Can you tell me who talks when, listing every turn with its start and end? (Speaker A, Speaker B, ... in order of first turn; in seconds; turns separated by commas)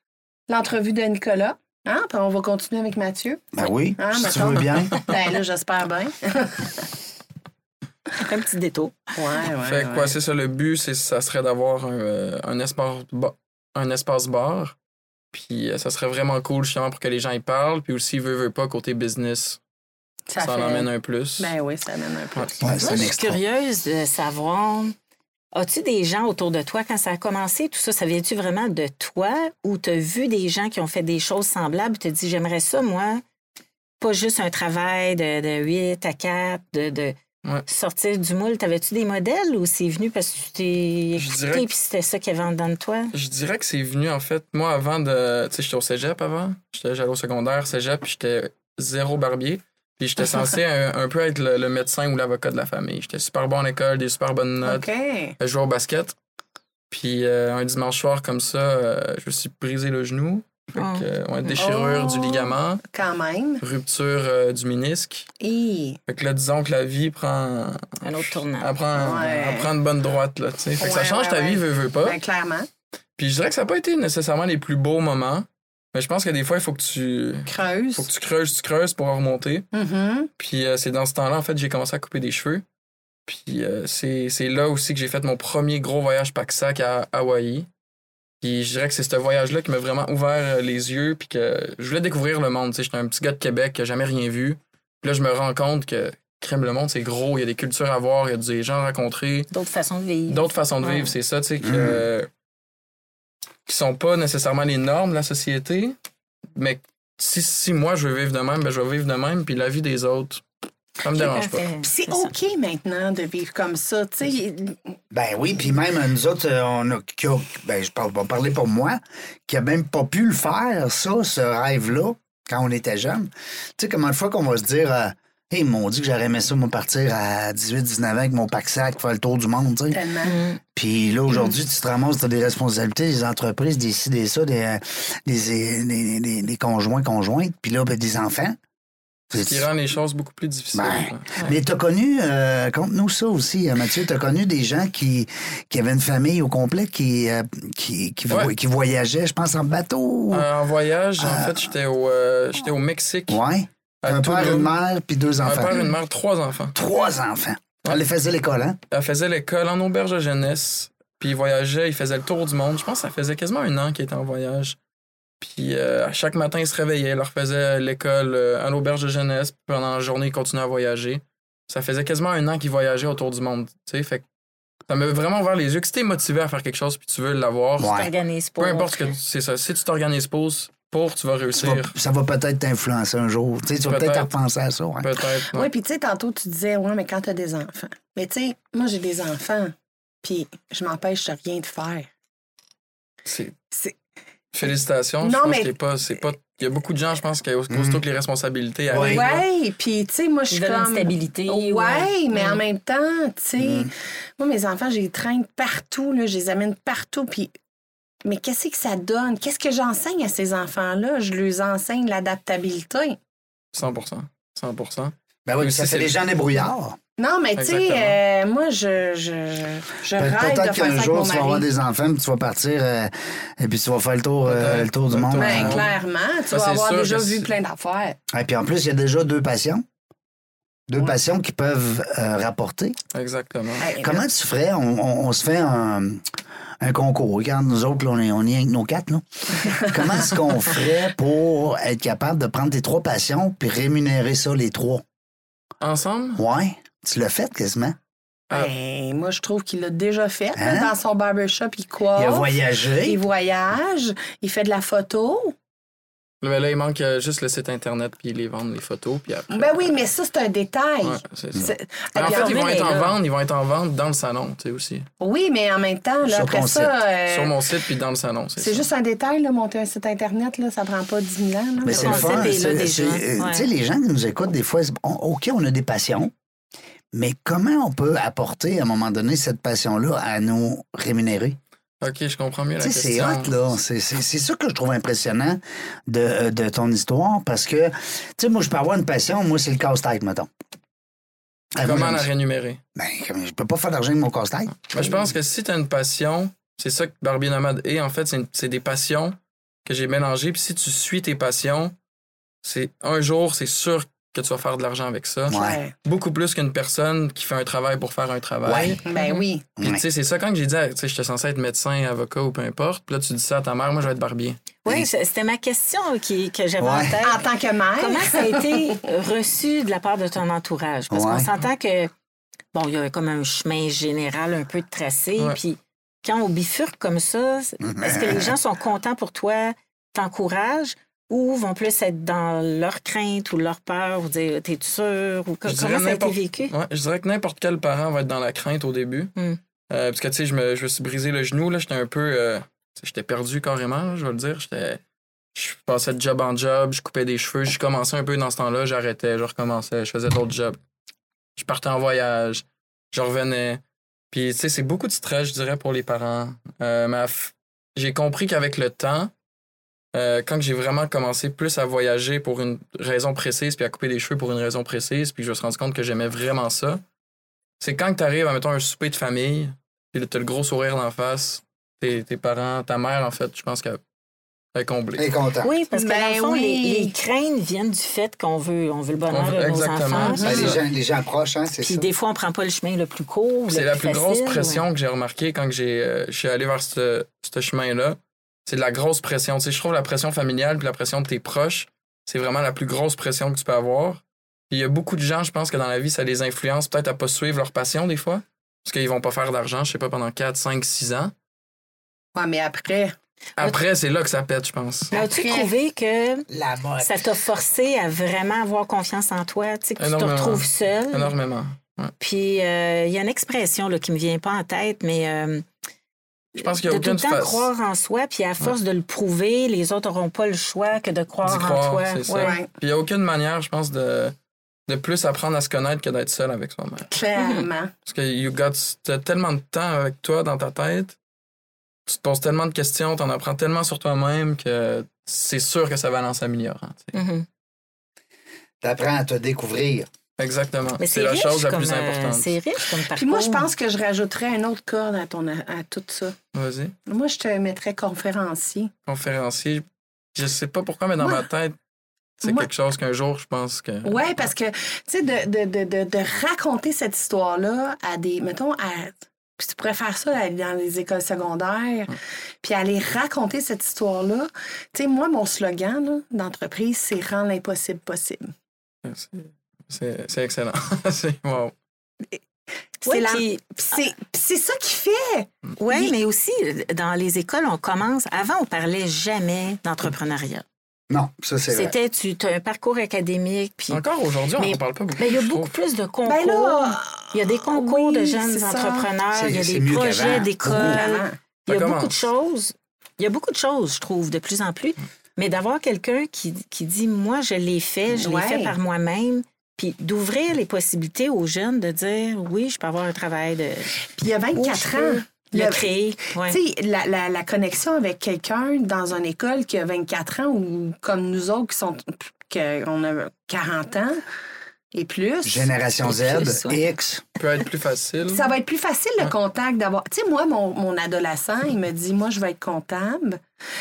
Speaker A: 0.5-6.9, Speaker B: 3.5-5.0, Speaker C: 8.2-9.0, Speaker A: 9.1-10.1, Speaker D: 9.6-14.7, Speaker D: 15.3-19.6, Speaker A: 20.3-23.1, Speaker D: 20.4-21.5, Speaker B: 22.6-23.4, Speaker C: 22.8-24.9, Speaker C: 25.5-33.2, Speaker C: 34.0-43.1, Speaker D: 41.1-41.7, Speaker D: 43.1-54.9, Speaker A: 54.6-55.3, Speaker D: 55.4-56.1, Speaker D: 56.9-62.8, Speaker C: 60.8-61.6, Speaker A: 61.6-63.6, Speaker D: 63.6-65.3, Speaker A: 65.4-66.0, Speaker D: 66.1-72.2, Speaker C: 68.0-68.7, Speaker A: 68.9-69.7, Speaker A: 70.8-72.7, Speaker D: 73.2-79.7, Speaker A: 77.5-78.1, Speaker A: 79.7-80.3, Speaker D: 80.4-82.6, Speaker D: 83.3-87.7, Speaker D: 88.4-99.5, Speaker C: 99.5-101.1, Speaker D: 100.3-102.3, Speaker B: 101.6-102.0, Speaker D: 103.7-106.0, Speaker D: 106.5-110.4, Speaker D: 111.0-111.7, Speaker C: 111.1-112.3, Speaker A: 111.8-114.9, Speaker B: 115.1-130.0, Speaker A: 129.9-130.4, Speaker C: 130.2-130.6, Speaker B: 130.8-138.6, Speaker B: 139.3-139.7, Speaker D: 139.3-141.5, Speaker B: 140.7-150.5, Speaker D: 150.3-153.4, Speaker B: 151.2-151.7, Speaker B: 153.3-155.9, Speaker D: 154.0-154.7, Speaker D: 155.4-156.8, Speaker B: 156.7-158.8, Speaker D: 158.9-164.8, Speaker D: 165.4-174.2, Speaker D: 174.9-178.0, Speaker B: 177.8-178.1, Speaker C: 177.8-179.1, Speaker D: 178.6-181.9, Speaker B: 181.6-185.1, Speaker D: 183.9-184.3, Speaker D: 185.0-185.7, Speaker A: 185.5-192.1, Speaker D: 193.3-193.6, Speaker D: 194.5-199.4, Speaker A: 195.2-195.7, Speaker B: 197.7-198.0, Speaker B: 198.9-199.2, Speaker A: 198.9-207.5, Speaker C: 200.5-202.6, Speaker B: 203.6-203.9, Speaker A: 208.2-213.2, Speaker D: 213.7-216.1, Speaker B: 215.4-217.0, Speaker A: 217.2-221.7, Speaker D: 217.6-218.2, Speaker B: 220.1-225.8, Speaker D: 224.4-226.0, Speaker A: 225.3-228.2, Speaker D: 226.5-227.5, Speaker B: 228.3-229.8, Speaker B: 230.9-233.0, Speaker D: 233.1-233.9, Speaker A: 233.8-234.2, Speaker B: 234.0-236.3, Speaker B: 236.8-245.0, Speaker D: 245.8-246.4, Speaker B: 246.4-247.9, Speaker A: 248.5-255.6, Speaker B: 250.6-250.9, Speaker B: 252.1-253.2, Speaker D: 256.4-260.0, Speaker A: 259.5-262.6, Speaker D: 261.0-265.1, Speaker C: 262.2-263.1, Speaker A: 265.2-267.6, Speaker B: 266.2-266.9, Speaker D: 267.3-268.9, Speaker A: 268.6-272.5, Speaker B: 271.8-276.3, Speaker C: 271.9-273.7, Speaker D: 272.0-272.5, Speaker B: 277.1-281.6, Speaker D: 282.0-283.6, Speaker B: 282.8-290.5, Speaker B: 291.7-292.3, Speaker D: 291.8-292.8, Speaker B: 292.9-295.3, Speaker D: 294.8-301.9, Speaker D: 302.6-309.0, Speaker B: 305.5-305.8, Speaker A: 305.5-305.9, Speaker B: 308.6-309.0, Speaker A: 309.1-309.6, Speaker C: 309.2-309.4, Speaker B: 309.8-310.0, Speaker D: 309.8-314.6, Speaker C: 314.8-317.5, Speaker B: 316.8-317.2, Speaker A: 317.2-318.9, Speaker C: 318.0-322.1, Speaker B: 321.1-321.5, Speaker C: 322.7-336.7, Speaker B: 327.8-328.6, Speaker D: 335.6-339.3, Speaker D: 339.9-345.0, Speaker D: 345.6-350.8, Speaker D: 351.6-359.3, Speaker D: 360.1-367.0, Speaker D: 367.8-374.0, Speaker D: 374.7-375.3, Speaker B: 375.2-375.7, Speaker C: 375.6-380.7, Speaker A: 375.9-377.1, Speaker D: 379.3-380.8, Speaker A: 380.2-380.7, Speaker B: 380.4-382.1, Speaker C: 381.8-384.8, Speaker D: 383.7-401.3, Speaker A: 402.3-403.1, Speaker D: 403.6-405.1, Speaker A: 405.1-405.7, Speaker C: 405.1-406.5, Speaker B: 406.5-407.3, Speaker C: 407.0-411.3, Speaker D: 410.0-412.1, Speaker C: 412.2-415.6, Speaker C: 416.6-422.6, Speaker D: 416.6-417.7, Speaker D: 421.4-424.3, Speaker A: 422.4-422.7, Speaker D: 424.9-427.1, Speaker A: 427.1-427.9, Speaker C: 427.4-427.7, Speaker D: 428.1-431.1, Speaker D: 432.1-437.2, Speaker C: 437.1-437.4, Speaker B: 438.8-440.1, Speaker D: 440.4-442.5, Speaker C: 441.0-443.7, Speaker A: 443.1-446.4, Speaker D: 446.5-446.9, Speaker A: 447.1-448.9, Speaker D: 449.1-451.8, Speaker A: 451.2-451.4, Speaker D: 452.4-454.4, Speaker A: 452.4-452.7, Speaker A: 454.0-468.5, Speaker D: 469.1-471.7, Speaker A: 473.0-476.1, Speaker C: 473.1-473.6, Speaker C: 475.8-480.6, Speaker B: 481.1-481.9, Speaker C: 481.7-484.0, Speaker D: 483.9-485.7, Speaker C: 484.6-503.9, Speaker A: 486.2-489.1, Speaker B: 489.3-491.0, Speaker A: 490.6-491.4, Speaker D: 491.7-492.3, Speaker A: 498.1-498.7, Speaker A: 504.1-514.2, Speaker C: 504.6-506.6, Speaker A: 514.9-515.7, Speaker B: 515.4-517.2, Speaker C: 516.0-516.8, Speaker D: 517.4-518.5, Speaker A: 518.3-523.4